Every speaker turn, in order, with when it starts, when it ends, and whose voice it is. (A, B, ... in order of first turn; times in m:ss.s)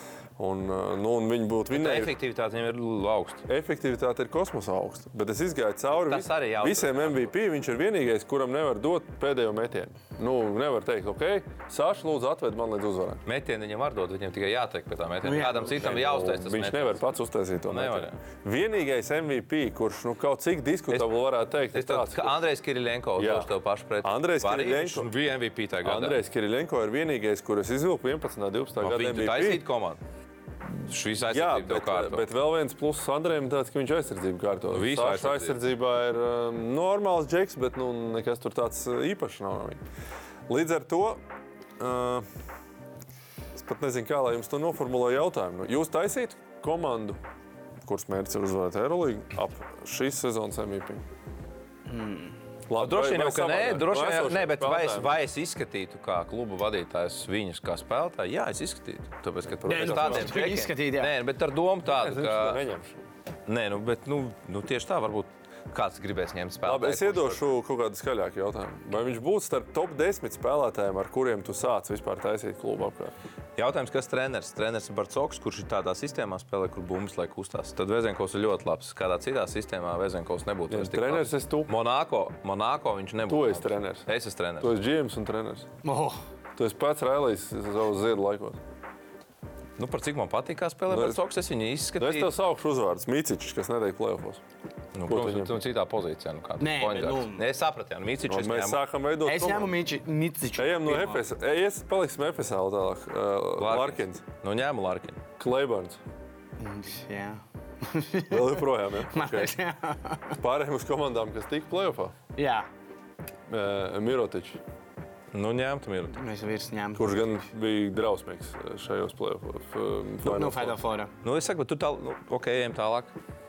0:00.4-0:02.1 A
0:01.7-0:03.4 B
0:03.4-0:13.2 A
0:05.9-0:07.3 B
0:13.2-0:17.0 B
0:15.2-0:15.8 C
0:15.7-0:22.4 A
0:17.7-0:18.2 B
0:21.7-0:26.2 B
0:23.2-0:23.5 A
0:24.0-0:25.1 A
0:25.8-0:29.6 A
0:28.8-0:30.0 B
0:30.8-0:32.2 B
0:31.3-0:39.8 A
0:34.7-0:35.6 B
0:40.5-0:41.2 A
0:41.8-0:42.2 A
0:43.5-0:47.2 A
0:47.8-0:51.0 A
0:51.9-0:52.3 C
0:52.7-0:55.2 A
0:52.8-1:02.6 B
0:59.5-1:00.5 A
0:59.6-1:01.1 C
1:01.8-1:03.0 A
1:03.5-1:07.4 B
1:06.6-1:13.1 A
1:13.6-1:24.7 B
1:20.7-1:21.7 A
1:23.3-1:24.1 A
1:24.6-1:25.6 A
1:25.8-1:26.2 C
1:26.6-1:28.6 A
1:29.8-1:32.3 B
1:30.9-1:31.2 A
1:32.0-1:34.4 A
1:34.9-1:38.8 B
1:35.0-1:35.6 A
1:36.6-1:37.4 C
1:38.3-1:39.8 A
1:39.2-1:41.2 C
1:40.6-1:44.2 A
1:43.6-1:45.2 B
1:45.4-1:46.0 A
1:46.6-1:50.4 C
1:48.3-1:49.5 A
1:50.4-1:52.1 A
1:52.4-1:52.7 C
1:53.5-1:54.6 A
1:55.3-1:56.2 B
1:56.1-1:57.4 C
1:57.0-2:00.8 A
2:00.2-2:01.1 C
2:01.2-2:03.1 B